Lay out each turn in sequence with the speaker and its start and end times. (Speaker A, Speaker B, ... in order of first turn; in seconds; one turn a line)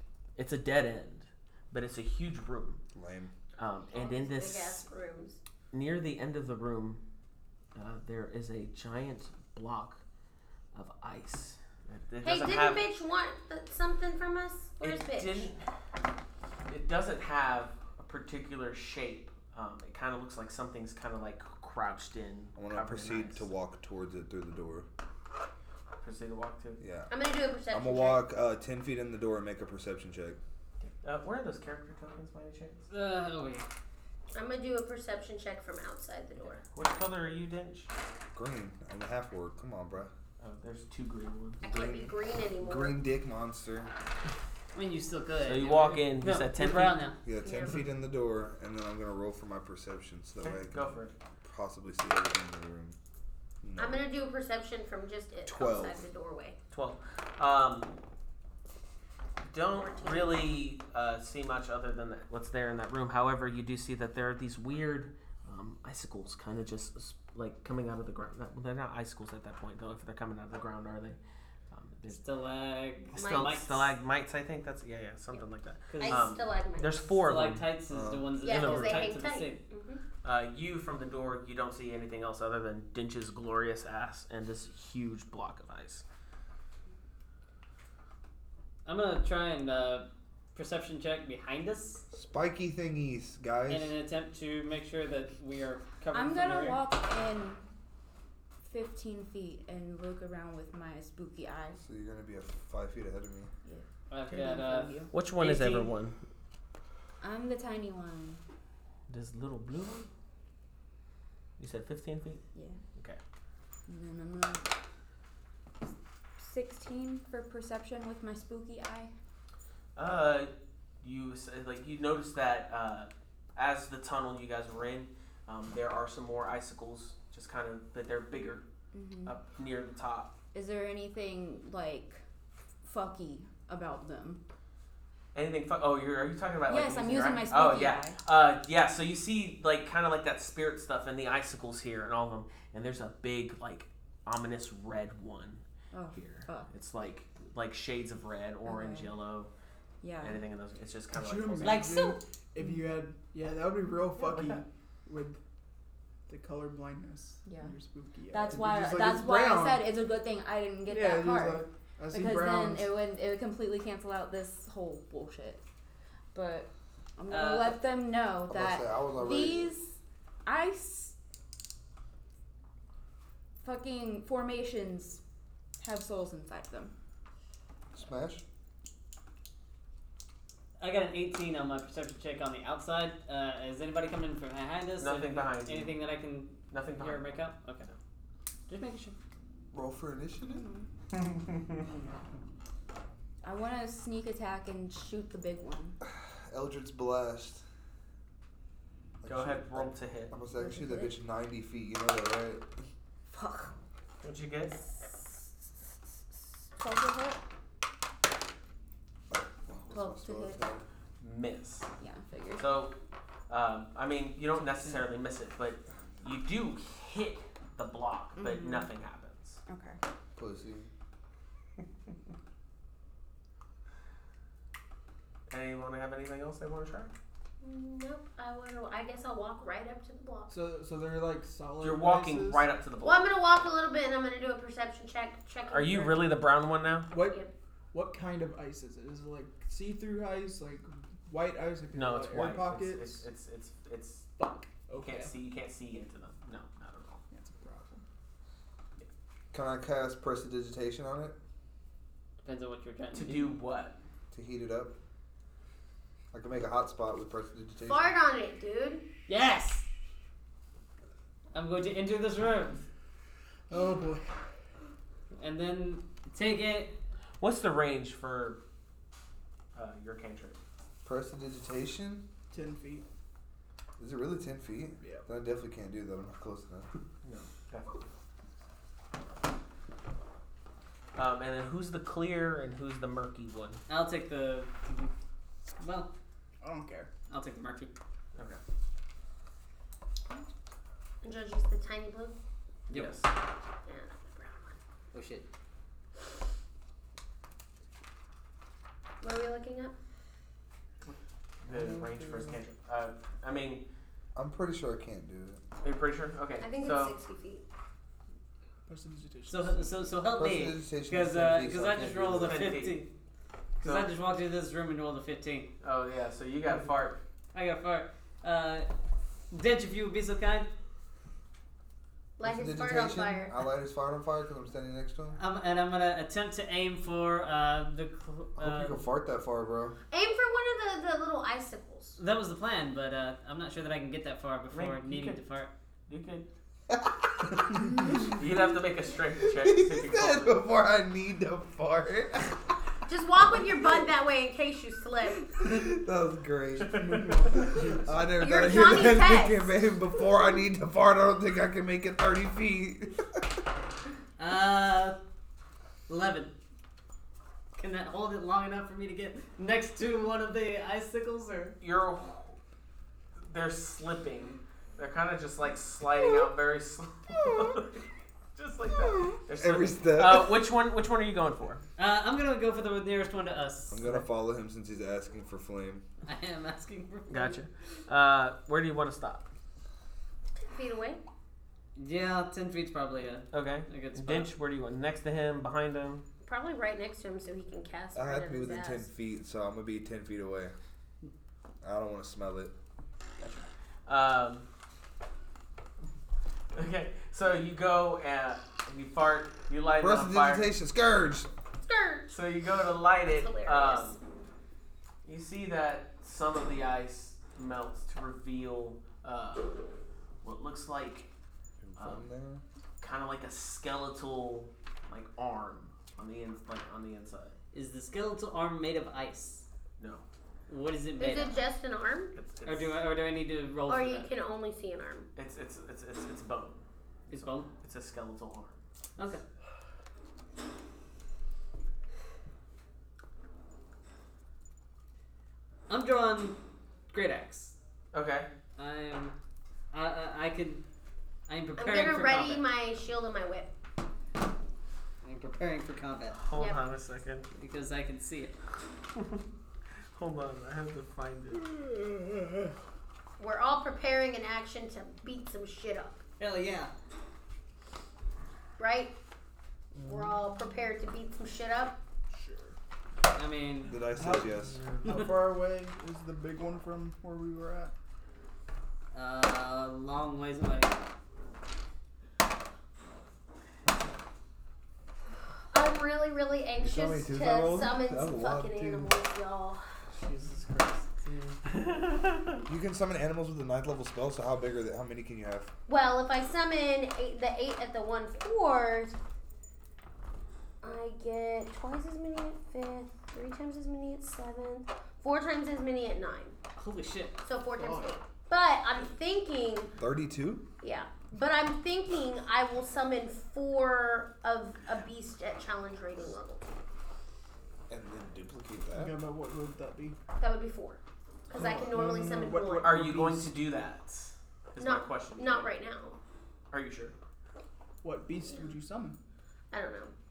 Speaker A: 0.3-2.8
Speaker B: 2.9-3.3
Speaker A: 3.6-4.8
Speaker C: 3.9-5.4
Speaker A: 5.7-7.0
Speaker A: 7.7-10.0
Speaker A: 10.7-12.8
Speaker C: 12.2-15.5
Speaker A: 14.8-15.6
Speaker A: 16.7-23.4
Speaker B: 22.6-24.9
Speaker A: 26.0-26.8
Speaker B: 26.8-27.1
Speaker C: 27.1-28.2
Speaker B: 27.7-30.4
Speaker A: 30.8-32.8
Speaker D: 32.9-33.6
Speaker C: 34.3-36.6
Speaker A: 36.5-37.9
Speaker B: 38.3-40.1
Speaker A: 40.4-42.1
Speaker C: 41.6-43.0
Speaker B: 42.6-43.9
Speaker D: 44.7-47.2
Speaker A: 45.4-47.0
Speaker B: 47.2-53.0
Speaker C: 47.4-47.8
Speaker A: 50.4-51.1
Speaker B: 53.6-54.0
Speaker C: 53.8-56.5
Speaker B: 55.5-56.0
Speaker A: 56.7-58.0
Speaker A: 59.4-71.2
Speaker C: 59.8-60.3
Speaker A: 71.7-72.2
Speaker D: 72.0-73.9
Speaker A: 73.1-77.7
Speaker C: 73.2-73.6
Speaker D: 75.9-76.3
Speaker C: 75.9-77.0
Speaker D: 77.2-79.6
Speaker B: 77.9-78.3
Speaker C: 78.4-80.0
Speaker A: 78.4-79.2
Speaker A: 80.2-86.0
Speaker D: 88.8-92.0
Speaker B: 92.1-93.9
Speaker D: 93.7-96.8
Speaker E: 96.1-97.6
Speaker E: 98.6-101.8
Speaker B: 101.8-103.5
Speaker E: 103.6-105.1
Speaker D: 104.1-105.9
Speaker A: 104.3-104.5
Speaker A: 105.1-106.2
Speaker E: 107.2-108.4
Speaker A: 109.1-110.1
Speaker A: 111.6-112.4
Speaker E: 112.5-112.8
Speaker E: 113.9-114.7
Speaker E: 116.4-119.1
Speaker A: 120.0-120.5
Speaker A: 121.0-128.6
Speaker E: 128.9-129.3
Speaker A: 129.2-130.3
Speaker E: 130.5-132.2
Speaker E: 132.8-134.4
Speaker A: 135.3-145.6
Speaker E: 136.7-138.2
Speaker E: 145.9-146.7
Speaker A: 146.1-149.5
Speaker E: 148.6-149.1
Speaker E: 150.0-150.4
Speaker A: 150.2-151.9
Speaker F: 151.1-155.4
Speaker D: 151.6-152.2
Speaker E: 152.6-152.8
Speaker A: 154.2-154.6
Speaker F: 156.3-159.9
Speaker E: 157.4-157.7
Speaker E: 158.3-165.6
Speaker F: 160.8-162.9
Speaker E: 166.3-169.9
Speaker D: 167.3-167.8
Speaker B: 168.5-169.7
Speaker E: 170.4-171.1
Speaker E: 173.6-175.2
Speaker E: 175.8-176.9
Speaker B: 177.9-178.4
Speaker D: 180.8-187.9
Speaker A: 185.0-186.0
Speaker A: 186.7-187.9
Speaker D: 188.7-189.2
Speaker B: 189.7-190.6
Speaker E: 190.4-190.9
Speaker E: 193.4-196.0
Speaker B: 196.0-197.6
Speaker B: 199.2-202.7
Speaker A: 199.2-200.3
Speaker E: 200.6-201.1
Speaker E: 203.3-203.7
Speaker A: 204.2-204.8
Speaker E: 204.8-205.1
Speaker E: 206.7-207.4
Speaker B: 209.3-210.8
Speaker E: 209.9-210.6
Speaker A: 211.2-211.9
Speaker E: 212.0-212.7
Speaker A: 212.6-212.9
Speaker A: 213.5-219.6
Speaker E: 218.3-218.9
Speaker E: 219.7-220.0
Speaker B: 220.3-220.9
Speaker A: 225.5-227.1
Speaker C: 227.6-230.5
Speaker F: 230.5-232.7
Speaker A: 231.8-233.2
Speaker C: 233.0-236.3
Speaker A: 235.7-237.1
Speaker F: 237.1-243.2
Speaker C: 237.2-237.5
Speaker A: 241.9-244.3
Speaker F: 244.4-245.3
Speaker A: 244.9-247.2
Speaker F: 247.3-248.0
Speaker B: 249.5-251.3
Speaker D: 252.4-253.5
Speaker A: 253.1-253.9
Speaker B: 254.3-254.9
Speaker B: 256.3-258.1
Speaker C: 257.8-259.1
Speaker D: 259.3-259.8
Speaker D: 261.5-262.8
Speaker F: 263.7-264.3
Speaker D: 265.4-266.9
Speaker A: 267.4-268.6
Speaker A: 269.7-270.6
Speaker B: 271.0-272.2
Speaker F: 272.5-273.0
Speaker B: 274.0-276.9
Speaker F: 275.0-275.3
Speaker A: 277.2-278.1
Speaker A: 281.1-283.8
Speaker D: 283.9-285.1
Speaker D: 285.8-286.1
Speaker F: 286.6-287.1
Speaker D: 287.3-287.9
Speaker A: 288.3-288.6
Speaker C: 291.2-292.4
Speaker D: 292.9-293.1
Speaker A: 292.9-293.3
Speaker C: 293.9-294.8
Speaker D: 295.1-295.4
Speaker C: 299.2-299.9
Speaker A: 301.1-303.9
Speaker B: 304.3-305.6
Speaker A: 305.8-307.1
Speaker C: 306.6-307.6
Speaker F: 308.9-310.1
Speaker D: 309.5-313.1
Speaker B: 310.4-312.7
Speaker A: 312.4-313.1
Speaker D: 313.8-315.7
Speaker A: 313.8-314.1
Speaker A: 315.8-317.2
Speaker D: 317.5-318.9
Speaker D: 319.5-320.7
Speaker C: 322.4-323.6
Speaker B: 322.4-325.4
Speaker D: 325.4-329.0
Speaker B: 328.6-329.9
Speaker C: 330.1-332.2
Speaker D: 332.2-335.7
Speaker A: 334.7-335.4
Speaker A: 336.1-336.5
Speaker A: 338.2-340.6
Speaker B: 339.4-342.6
Speaker C: 343.1-345.5
Speaker B: 345.6-353.4
Speaker A: 346.8-347.8
Speaker F: 346.8-348.2
Speaker C: 348.4-349.8
Speaker D: 354.4-355.2
Speaker D: 356.1-356.5
Speaker D: 357.7-361.8
Speaker A: 361.8-362.6
Speaker A: 363.4-368.0
Speaker A: 368.5-371.8
Speaker B: 369.5-370.6
Speaker D: 372.0-374.2
Speaker B: 373.9-376.0
Speaker D: 376.2-377.6
Speaker A: 377.3-379.5
Speaker C: 380.6-381.2
Speaker D: 382.0-384.5
Speaker A: 383.5-386.2
Speaker C: 386.4-389.1
Speaker B: 388.1-390.7
Speaker B: 391.8-392.7
Speaker A: 393.4-394.6
Speaker A: 396.7-400.8
Speaker B: 400.0-401.5
Speaker C: 401.8-402.3
Speaker A: 402.3-404.2
Speaker C: 403.2-404.2
Speaker A: 405.2-409.8
Speaker A: 410.4-411.3
Speaker B: 411.8-412.6
Speaker A: 412.0-412.3
Speaker A: 413.0-417.6
Speaker D: 417.7-419.6
Speaker A: 420.0-420.2
Speaker D: 420.7-421.6
Speaker C: 421.2-422.3
Speaker A: 422.3-423.0
Speaker D: 422.6-424.3
Speaker C: 423.9-425.3
Speaker A: 425.4-428.8
Speaker D: 427.3-427.7
Speaker D: 429.2-429.4
Speaker D: 435.9-436.6
Speaker D: 437.1-437.7
Speaker A: 438.1-438.5
Speaker D: 438.8-439.3
Speaker D: 439.9-440.8
Speaker D: 441.5-442.6
Speaker C: 441.8-443.7
Speaker D: 445.2-446.4
Speaker A: 446.4-447.5
Speaker C: 446.5-446.8
Speaker D: 447.5-448.5
Speaker A: 449.1-449.4
Speaker A: 450.1-451.6
Speaker F: 451.6-452.7
Speaker C: 453.4-456.2
Speaker D: 456.4-456.9
Speaker C: 458.8-459.1
Speaker C: 460.0-462.0
Speaker F: 462.3-462.8
Speaker D: 463.3-464.0
Speaker B: 463.9-464.8
Speaker A: 464.2-465.1
Speaker F: 465.0-467.9
Speaker D: 469.1-471.0
Speaker C: 475.7-479.8
Speaker B: 476.8-479.1
Speaker A: 480.2-482.6
Speaker B: 482.7-485.7
Speaker C: 485.9-489.1
Speaker C: 490.8-496.5
Speaker D: 496.8-497.4
Speaker C: 497.4-499.9
Speaker F: 497.8-498.1
Speaker B: 500.0-500.6
Speaker C: 500.8-506.6
Speaker B: 507.9-509.1
Speaker F: 508.9-510.2
Speaker C: 510.4-513.0
Speaker F: 511.5-513.5
Speaker A: 512.8-515.7
Speaker C: 514.8-516.2
Speaker A: 516.7-517.1
Speaker F: 518.0-519.2
Speaker C: 519.7-520.1